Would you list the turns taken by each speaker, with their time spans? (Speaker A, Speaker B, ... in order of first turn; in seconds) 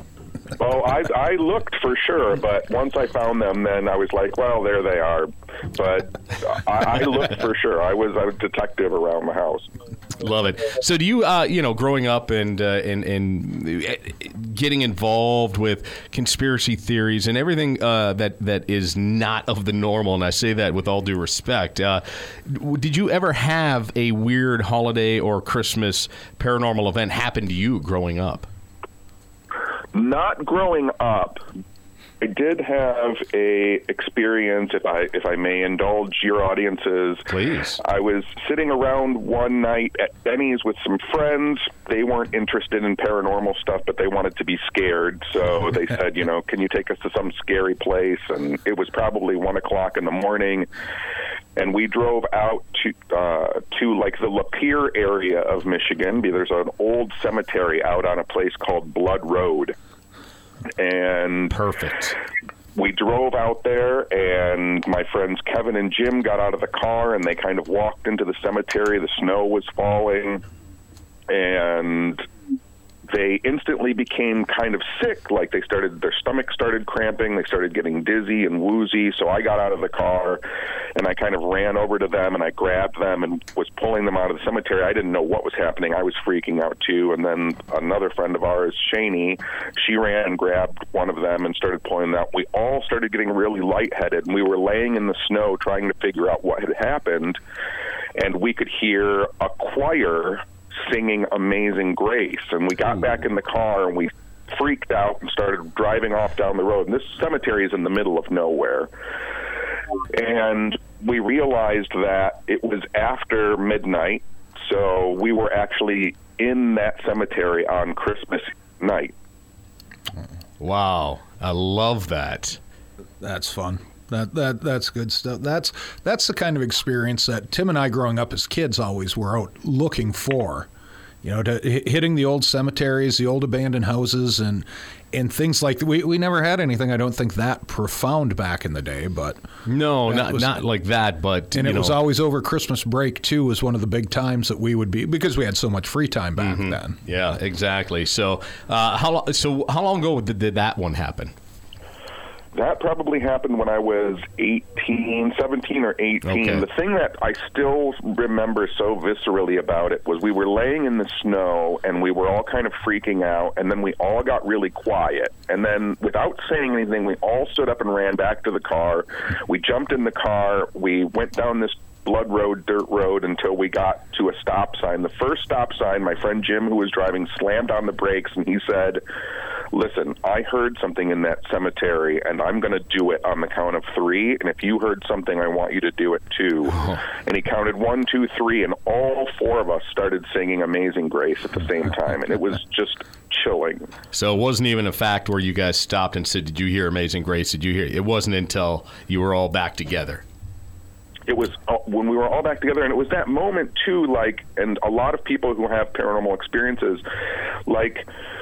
Speaker A: 0.6-9.7, 29.9-31.4, 32.2-37.3, 37.8-50.7, 51.5-59.8, 60.8-61.5, 62.8-70.4, 71.3-72.2, 73.1-80.4, 81.0-97.4, 98.2-108.9, 110.1-119.1, 152.5-179.0, 179.7-193.9, 201.3-207.0, 207.7-208.1
Speaker B: 10.2-28.5, 37.3-37.8, 61.5-62.2, 120.6-122.6, 139.6-142.0, 146.4-151.3, 156.2-156.7, 194.1-200.2
Speaker C: 123.2-130.7, 131.2-139.4, 140.1-140.6, 141.5-147.0